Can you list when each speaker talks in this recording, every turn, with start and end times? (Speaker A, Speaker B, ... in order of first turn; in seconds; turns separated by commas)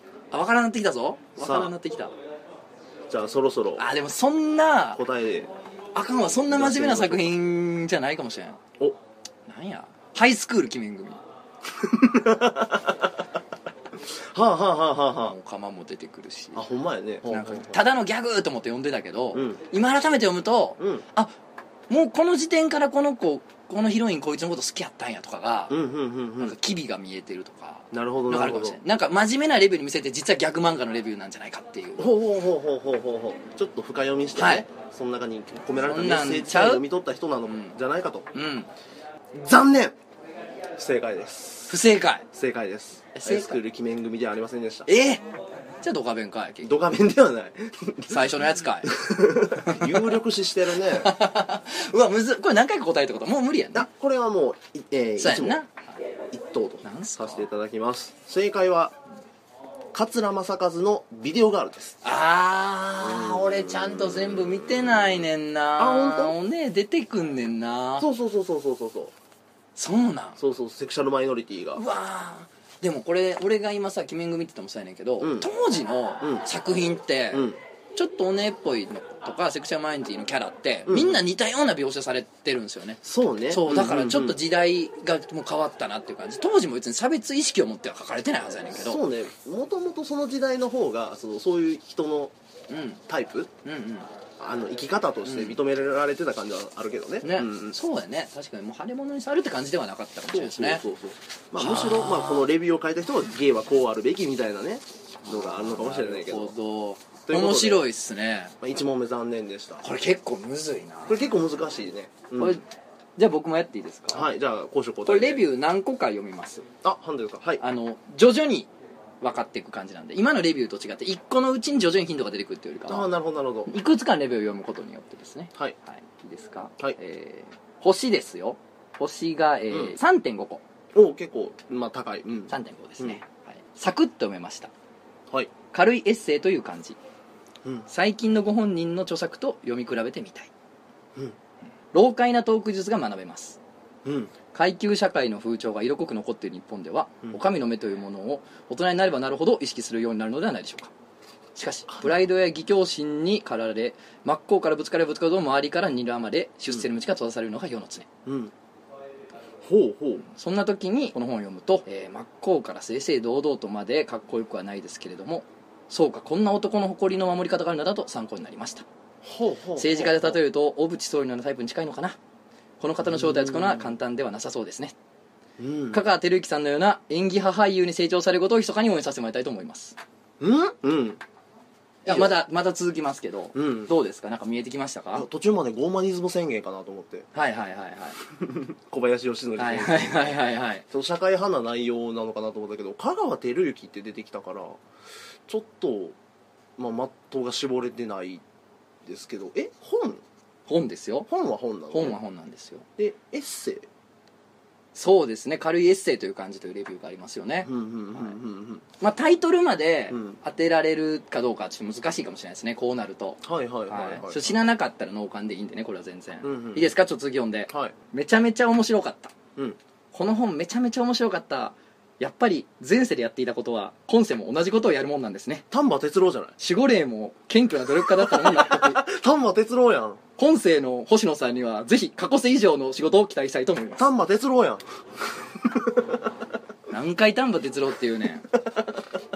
Speaker A: 0.3-2.1, Speaker B: 1.4-1.7, Speaker B: 3.1-3.8, Speaker A: 3.8-5.0, Speaker B: 4.9-5.5, Speaker A: 5.9-8.6, Speaker B: 6.5-7.3, Speaker A: 9.5-11.2, Speaker B: 11.7-13.1, Speaker B: 14.0-15.3, Speaker A: 15.2-16.6, Speaker B: 16.5-17.8, Speaker A: 17.2-21.3, Speaker B: 19.3-19.6, Speaker B: 20.8-21.0, Speaker A: 21.9-25.8, Speaker B: 25.7-26.6, Speaker A: 26.4-32.1, Speaker B: 27.9-28.8, Speaker B: 32.0-38.3, Speaker A: 34.4-34.6, Speaker A: 35.8-36.8, Speaker A: 37.5-37.8, Speaker A: 38.3-38.7, Speaker B: 39.3-40.0, Speaker B: 40.8-41.8, Speaker A: 41.7-42.3, Speaker B: 42.3-44.9, Speaker A: 43.1-43.6, Speaker A: 44.9-45.2, Speaker A: 45.8-46.8, Speaker B: 46.6-51.1, Speaker A: 48.1-48.9, Speaker A: 49.5-50.1, Speaker A: 50.8-53.9, Speaker B: 53.7-55.6, Speaker A: 55.2-55.8, Speaker B: 56.3-59.0, Speaker A: 56.8-57.5, Speaker B: 59.9-62.0, Speaker A: 62.0-68.1, Speaker B: 63.0-66.4, Speaker B: 68.0-69.1, Speaker A: 69.8-70.4, Speaker B: 70.4-71.8, Speaker A: 71.7-89.0, Speaker B: 75.2-75.5, Speaker B: 77.3-77.6, Speaker B: 80.9-81.2, Speaker B: 83.0-84.4, Speaker B: 88.6-92.3, Speaker A: 92.7-93.0, Speaker B: 93.1-93.5, Speaker A: 93.6-94.1, Speaker B: 94.4-97.8, Speaker A: 95.2-95.6, Speaker A: 97.2-100.8, Speaker B: 100.3-106.5, Speaker A: 101.6-102.5, Speaker A: 105.2-108.6, Speaker B: 107.2-107.8, Speaker B: 108.6-109.8, Speaker A: 109.8-111.3, Speaker B: 111.1-112.6, Speaker A: 112.4-112.6, Speaker A: 113.2-114.3, Speaker B: 114.1-115.5, Speaker A: 115.0-116.7, Speaker B: 116.8-117.6, Speaker A: 117.6-118.7, Speaker A: 119.2-123.1, Speaker B: 122.9-123.7, Speaker A: 123.7-130.6, Speaker B: 129.7-129.9, Speaker B: 130.9-133.2, Speaker A: 132.5-134.7, Speaker A: 135.7-137.0, Speaker A: 137.9-140.5, Speaker A: 141.9-143.6, Speaker B: 144.0-144.3, Speaker A: 144.5-150.9, Speaker A: 151.6-158.1, Speaker B: 158.2-158.5, Speaker B: 159.6-160.2, Speaker A: 160.3-168.8, Speaker B: 169.2-170.4, Speaker A: 169.8-172.2, Speaker A: 172.8-174.9, Speaker B: 173.0-173.9, Speaker B: 175.6-176.0, Speaker A: 175.9-180.0, Speaker B: 180.4-181.2, Speaker A: 182.0-185.3, Speaker B: 182.1-182.4, Speaker B: 183.5-183.9, Speaker B: 185.1-187.3, Speaker A: 187.3-188.2, Speaker B: 188.4-194.8, Speaker A: 189.6-190.8, Speaker B: 195.5-196.2, Speaker B: 196.8-198.4, Speaker B: 199.0-200.2, Speaker A: 200.7-201.3, Speaker B: 201.3-202.2, Speaker A: 201.9-202.8, Speaker B: 203.0-203.9, Speaker A: 204.9-208.3, Speaker B: 207.6-208.8, Speaker A: 209.0-219.3, Speaker B: 210.1-210.4, Speaker B: 213.4-214.6, Speaker B: 216.4-216.9, Speaker B: 217.7-217.9, Speaker A: 220.1-225.7, Speaker B: 225.7-226.5, Speaker A: 226.6-229.0, Speaker B: 227.8-230.2, Speaker A: 230.4-234.1, Speaker B: 234.0-236.1, Speaker A: 236.9-238.6